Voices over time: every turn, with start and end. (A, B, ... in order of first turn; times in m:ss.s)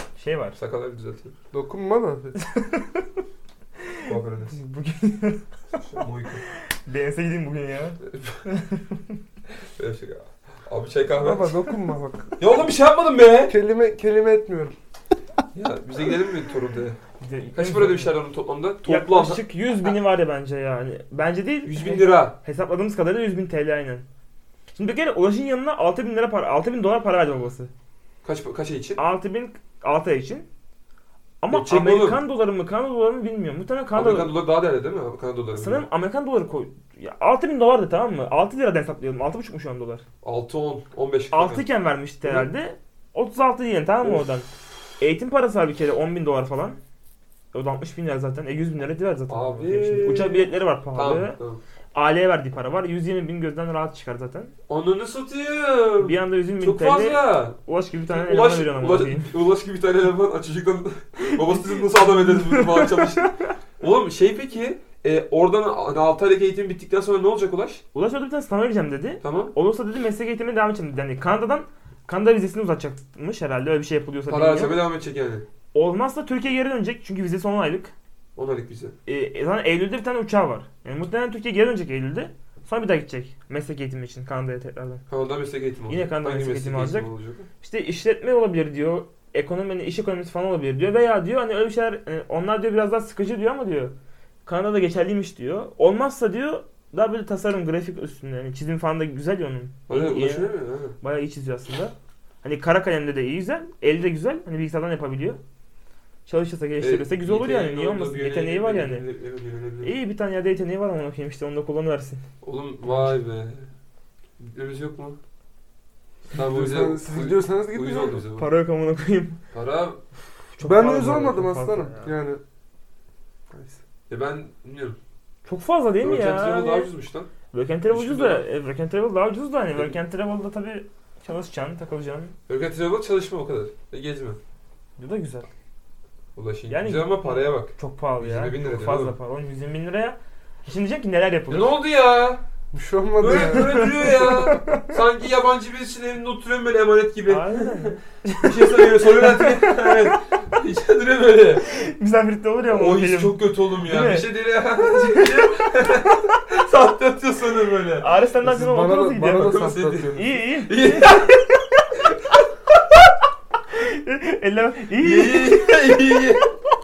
0:00.2-0:00.6 A
0:00.5-0:01.4 B
0:01.5-0:02.4 C
0:02.4-0:03.2 A
0:03.9-0:05.8 A
0:04.1-0:04.6 B
0:05.7-0:06.4 B
0:06.6-0:09.2 A
0:08.0-0:08.4 B
0:09.8-0:11.6 B
0:11.1-0:12.4 C
0:12.4-0:13.6 B
0:13.5-0:14.8 C
0:15.5-0:17.0 B
0:17.2-0:18.2 A
0:17.6-0:19.4 B
0:18.8-0:24.1 A
0:21.7-0:22.4 B
0:24.8-0:27.7 A
0:28.2-0:29.0 B
0:29.0-0:30.5 A
0:31.4-0:34.3 A
0:31.5-0:32.2 B
0:34.0-0:35.8 B
0:35.6-0:40.0 A
0:40.2-0:41.7 B
0:41.3-0:44.5 A
0:45.0-0:46.8 A
0:47.5-0:51.4 A
0:49.3-0:51.6 B
0:52.0-0:54.5 A
0:54.7-0:57.6 B
0:56.0-0:59.3 A
0:58.1-1:07.8 B
1:02.2-1:03.5 A
1:07.9-1:14.8 A
1:09.2-1:09.5 B
1:14.3-1:15.5 B
1:15.7-1:17.9 A
1:18.4-1:19.0 B
1:19.1-1:25.0 A
1:25.1-1:27.5 B
1:25.9-1:27.1 A
1:27.6-1:33.9 A
1:34.5-1:45.4 A
1:39.9-1:41.0 B
1:46.3-1:49.1 A
1:46.8-1:49.9 B
1:49.8-1:52.2 A
1:52.4-1:53.7 B
1:54.4-1:55.2 B
1:56.3-1:58.5 B
1:56.4-1:58.2 C
1:58.4-1:59.4 A
1:59.5-2:00.0 B
2:00.6-2:02.1 A
2:00.6-2:02.4 C
2:03.5-2:03.8 C
2:04.1-2:05.0 B
2:05.5-2:06.9 A
2:06.0-2:07.3 B
2:07.5-2:12.4 A
2:07.9-2:08.4 B
2:12.5-2:14.4 B
2:15.0-2:15.5 A
2:16.4-2:19.1 B
2:16.7-2:21.7 A
2:21.5-2:22.4 B
2:22.7-2:24.0 C
2:23.2-2:31.7 B
2:23.3-2:24.9 A
2:27.3-2:30.2 A
2:31.6-2:36.4 A
2:32.7-2:38.1 B
2:38.0-2:41.9 A
2:38.4-2:40.4 C
2:39.3-2:41.4 B
2:42.0-2:42.4 B
2:43.7-2:46.2 A
2:45.0-2:46.5 B